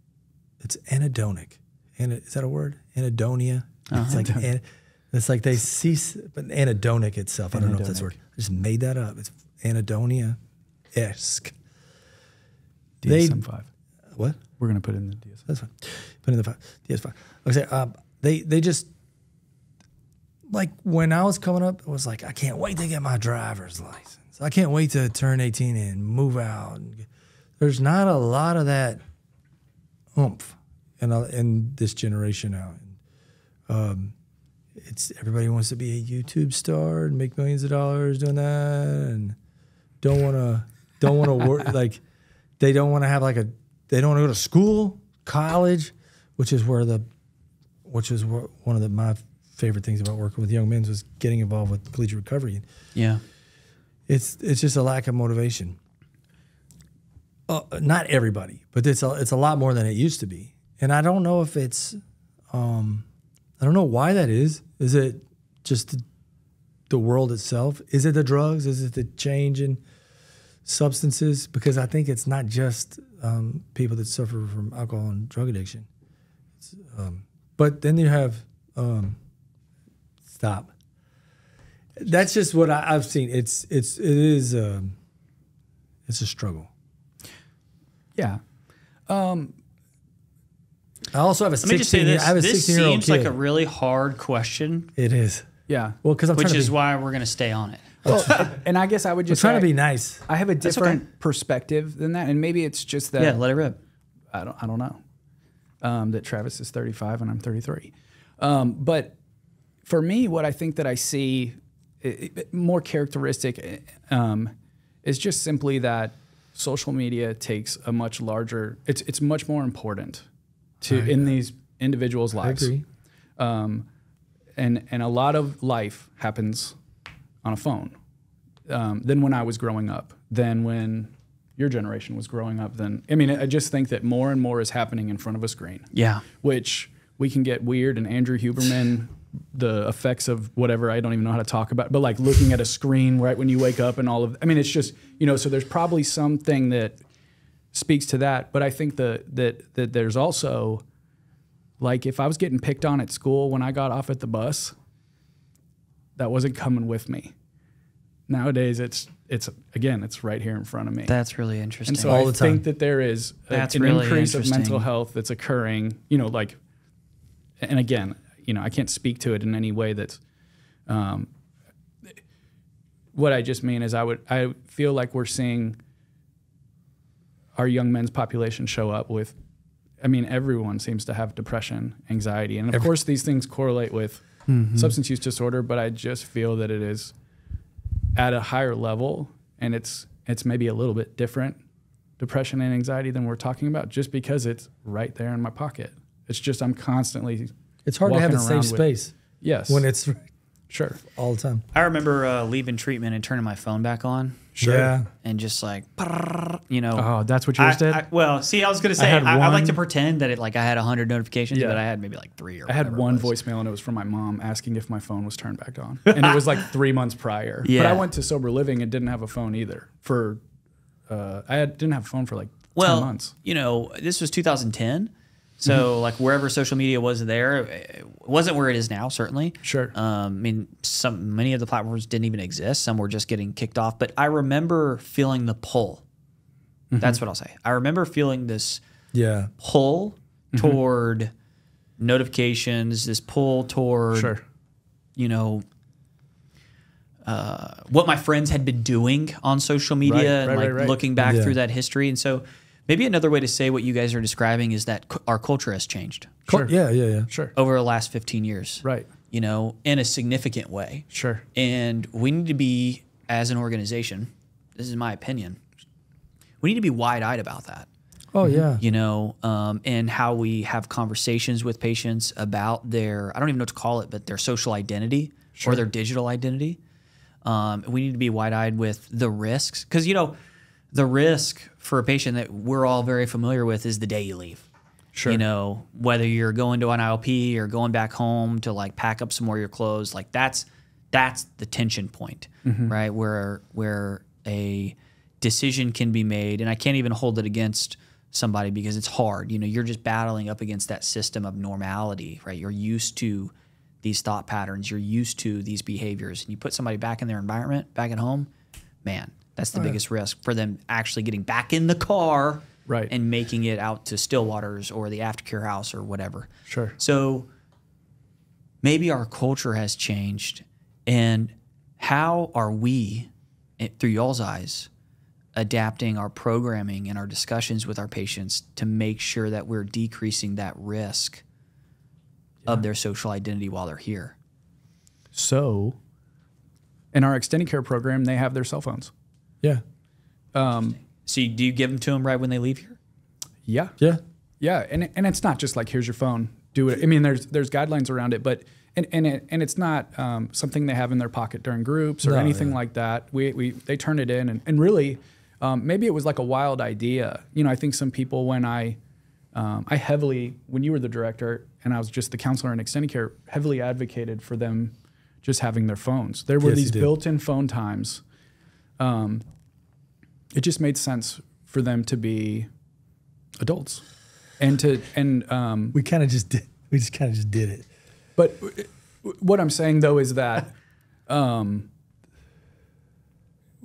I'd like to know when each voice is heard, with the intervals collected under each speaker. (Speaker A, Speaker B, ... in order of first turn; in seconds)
Speaker A: 0.6-10.4, 10.9-11.6, 13.0-13.4, 14.1-14.4, 15.5-18.9, 20.5-27.1, 27.6-29.0, 30.1-33.0, 33.7-34.1, 34.8-39.4, 40.0-42.0, 42.6-47.0, 47.8-52.6, 54.1-55.8, 57.5-62.0, 62.5-63.0, 63.6-66.0, 66.9-69.8, 70.6-75.9, 76.6-79.2, 80.3-80.7, 82.0-85.0, 86.1-86.7, 91.1-93.3, 95.0-95.5, 96.0-96.7, 98.0-98.4, 99.3-101.0, 120.8-121.3, 122.4-122.8, 162.0-162.6, 197.8-199.1, 199.7-200.2, 201.0-201.6, 204.6-205.1, 239.1-239.5, 251.2-251.6, 256.5-257.3, 268.3-268.8, 352.2-352.8, 366.6-367.1, 375.9-377.9
Speaker B: 3.9-4.3, 52.9-53.2, 91.6-94.9, 96.3-98.5, 103.2-103.8, 135.9-136.2, 161.1-162.2, 163.5-164.9, 184.5-184.9, 201.7-204.5, 205.2-207.1, 207.6-213.3, 216.1-216.4, 217.6-218.0, 222.8-236.0, 237.0-238.8, 239.6-241.3, 242.0-244.3, 245.2-245.6, 247.2-256.4, 257.5-265.6, 266.6-267.9, 268.8-276.8, 277.4-280.4, 280.9-284.6, 285.2-308.5, 309.0-317.5, 318.8-324.9, 325.6-331.4, 332.6-334.4, 341.1-343.0
Speaker C: 4.1-4.4, 7.5-8.1, 13.0-13.7, 14.6-15.4, 88.2-88.4, 89.1-89.5, 95.7-96.0, 98.1-99.7, 100.3-103.4, 104.3-105.0, 105.8-109.1, 109.8-114.5, 115.0-120.2, 120.8-122.7, 123.4-123.8, 124.5-126.8, 127.4-128.0, 128.7-147.0, 147.7-150.8, 151.8-154.7, 156.2-157.3, 158.3-161.1, 161.8-166.6, 167.6-170.2, 170.9-171.3, 173.1-175.8, 177.5-179.3, 180.0-184.2, 184.7-187.1, 188.1-191.6, 192.2-197.5, 198.0-198.8, 199.4-199.8, 200.7-201.0, 204.6-204.9, 206.9-208.0, 209.0-209.8, 211.5-211.8, 212.7-220.4, 221.1-223.3, 229.6-229.9, 236.9-237.2, 240.5-240.8, 244.1-244.4, 250.0-251.0, 256.5-256.7, 257.3-257.5, 258.8-259.1, 261.1-261.4, 268.4-268.7, 275.6-275.8, 285.1-285.4, 292.6-292.9, 312.9-313.1, 316.7-317.0, 335.3-336.0, 337.1-339.1, 340.5-341.0, 343.7-343.9, 344.6-359.0, 359.5-368.2, 369.0-369.4, 370.5-372.7, 373.6-374.0, 374.6-375.9, 378.4-380.7, 381.3-381.9